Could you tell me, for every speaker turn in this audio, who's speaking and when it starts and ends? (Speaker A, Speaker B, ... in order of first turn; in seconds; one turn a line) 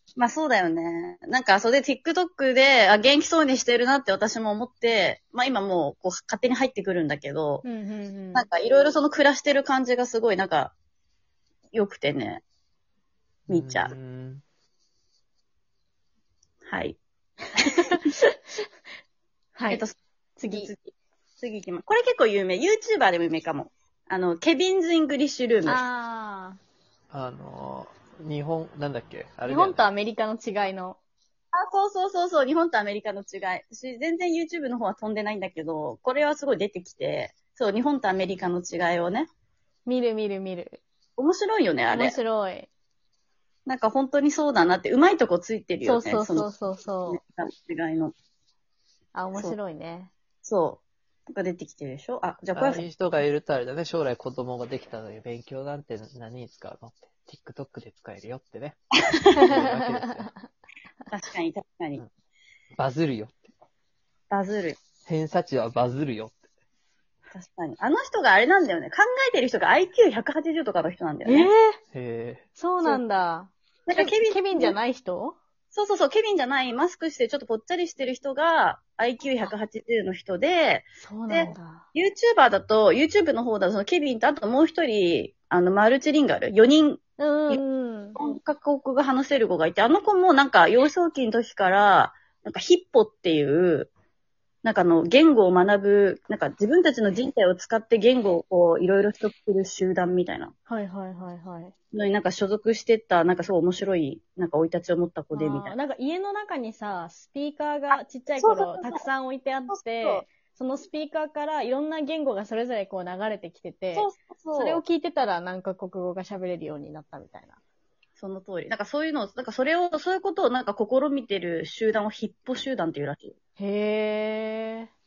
Speaker A: 0.2-7.7
Speaker B: 7.6-8.5
Speaker A: 8.3-10.7
Speaker A: 11.7-12.4
Speaker C: 13.5-14.4
Speaker A: 13.5-13.9
Speaker A: 16.6-17.0
Speaker B: 17.6-18.2
Speaker B: 19.6-19.8
Speaker A: 19.7-20.0
Speaker B: 20.4-20.7
Speaker A: 20.5-25.8
Speaker B: 25.6-26.6
Speaker C: 27.1-29.9
Speaker B: 29.5-31.0
Speaker A: 31.5-39.3
Speaker B: 39.9-40.8
Speaker A: 41.2-42.2
Speaker B: 41.9-42.7
Speaker A: 43.7-46.5
Speaker B: 45.8-47.2
Speaker A: 47.1-48.1
Speaker B: 49.1-50.1
Speaker A: 50.4-52.8
Speaker C: 52.5-58.8
Speaker C: 59.3-60.3
Speaker B: 59.6-60.3
Speaker A: 61.1-62.0
Speaker C: 62.8-63.4
Speaker A: 64.3-64.8
Speaker C: 65.1-66.3
Speaker A: 67.3-71.5
Speaker B: 71.2-71.8
Speaker C: 71.9-72.4
Speaker B: 72.6-75.4
Speaker A: 73.9-74.8
Speaker A: 75.7-87.6
Speaker B: 81.0-81.9
Speaker B: 87.2-88.2
Speaker A: 88.2-93.9
Speaker A: 94.6-100.5
Speaker B: 100.7-101.7
Speaker A: 101.9-105.8
Speaker B: 105.3-117.6
Speaker A: 108.4-109.0
Speaker A: 109.7-110.3
Speaker A: 113.9-114.8
Speaker A: 118.2-123.3
Speaker B: 123.6-124.9